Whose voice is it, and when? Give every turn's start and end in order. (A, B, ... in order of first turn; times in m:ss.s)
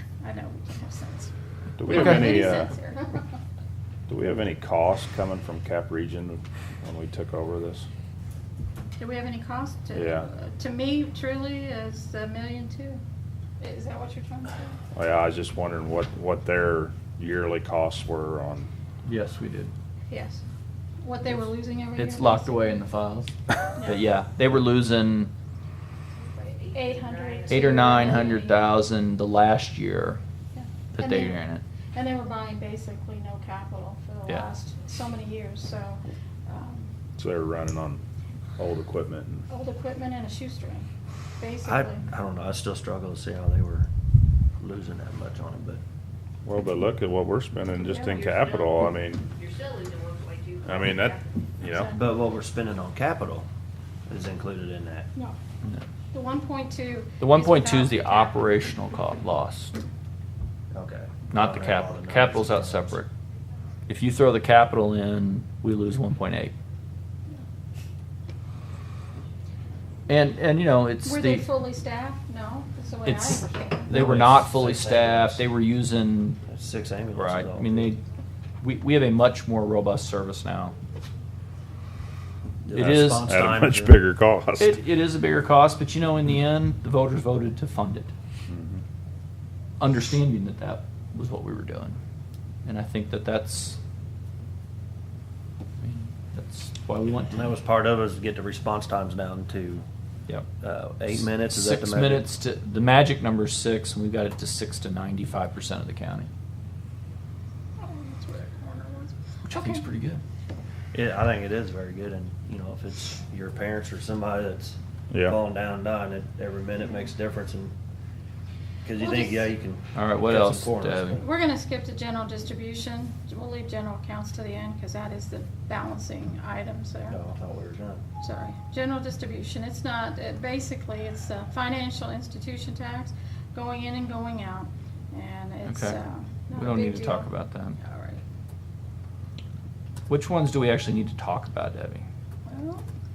0:00.2-0:01.3 A
0:01.8-0:02.7 B
0:01.8-0:03.2 A
0:01.9-0:02.3 C
0:04.1-0:07.9 B
0:09.0-0:13.0 A
0:09.9-0:10.3 B
0:13.6-0:14.8 A
0:14.9-0:18.7 B
0:19.0-0:19.7 C
0:20.1-0:20.4 A
0:21.0-0:22.8 A
0:22.0-0:25.3 C
0:23.8-0:24.0 A
0:26.2-0:28.3 D
0:26.7-0:28.6 A
0:27.5-0:30.2 C
0:30.5-0:31.4 A
0:30.9-0:31.6 C
0:31.9-0:36.9 A
0:37.2-0:38.0 B
0:38.6-0:39.4 B
0:39.5-0:40.9 A
0:41.4-0:42.0 A
0:41.6-0:43.9 E
0:44.6-0:45.8 E
0:46.4-0:49.2 B
0:47.8-0:48.3 A
0:48.2-0:51.4 D
0:50.6-0:51.9 B
0:51.6-0:52.0 A
0:51.9-0:53.4 E
0:54.1-0:55.1 E
0:56.1-0:58.4 A
0:57.2-0:59.8 C
1:00.7-1:03.0 E
1:01.3-1:03.1 C
1:03.9-1:06.5 C
1:10.1-1:11.5 C
1:11.0-1:13.9 A
1:13.0-1:16.4 C
1:13.9-1:15.4 E
1:16.4-1:17.9 E
1:17.1-1:18.0 C
1:18.6-1:20.7 C
1:22.6-1:24.0 E
1:22.7-1:23.3 C
1:22.8-1:24.8 B
1:24.6-1:28.1 C
1:28.5-1:28.8 B
1:29.8-1:32.0 C
1:32.6-1:33.8 C
1:35.8-1:37.5 C
1:37.3-1:39.8 E
1:40.6-1:42.3 E
1:41.1-1:46.3 C
1:47.8-1:49.8 A
1:49.4-1:50.2 C
1:50.9-1:57.7 E
1:55.1-1:55.4 B
1:58.8-2:01.3 E
1:59.0-1:59.5 A
1:59.9-2:01.2 C
2:01.2-2:07.2 A
2:07.1-2:08.0 E
2:08.2-2:18.2 A
2:15.6-2:16.0 C
2:16.5-2:17.8 C
2:20.1-2:22.0 C
2:22.4-2:22.8 A